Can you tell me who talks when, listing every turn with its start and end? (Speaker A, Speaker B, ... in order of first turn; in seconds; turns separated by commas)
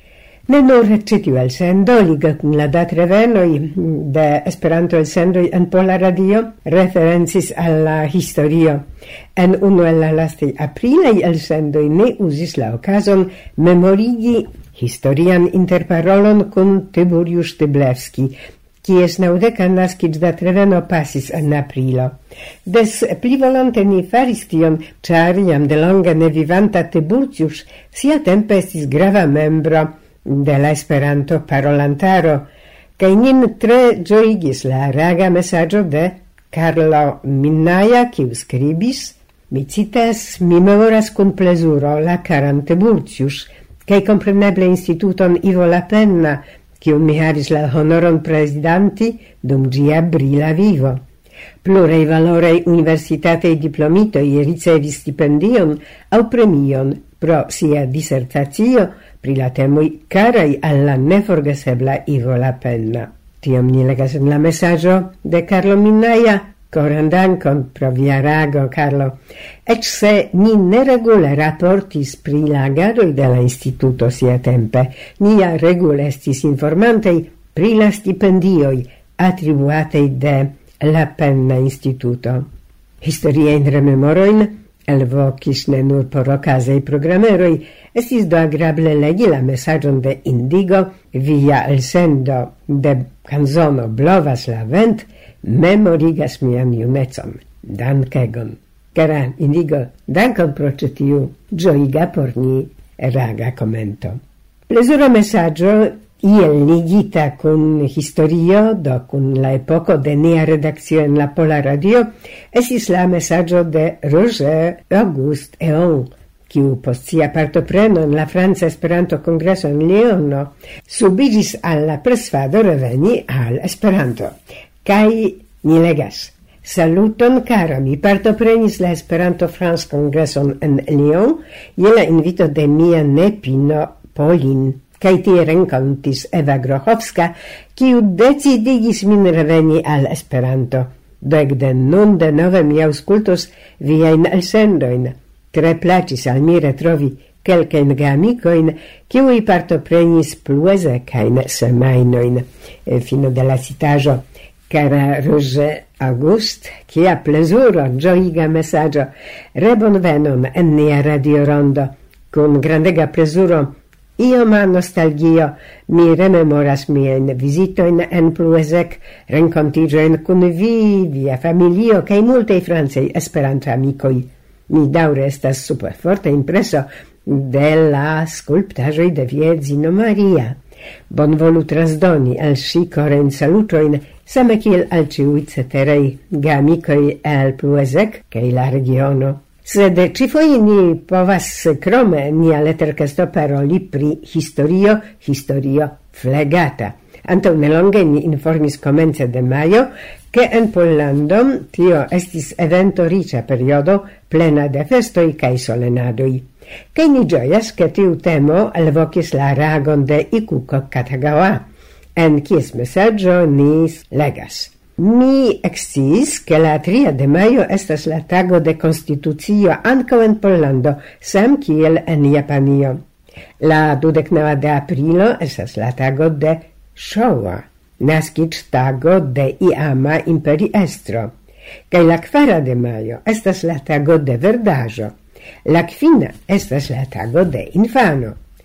Speaker A: 0.5-8.8, Speaker A: 9.3-22.1, Speaker A: 22.6-32.5, Speaker A: 33.0-51.0, Speaker A: 51.6-82.5, Speaker A: 83.0-180.6, Speaker A: 181.1-211.6, Speaker A: 212.2-223.0, Speaker A: 223.6-231.3, Speaker A: 231.9-235.1, Speaker A: 235.7-238.4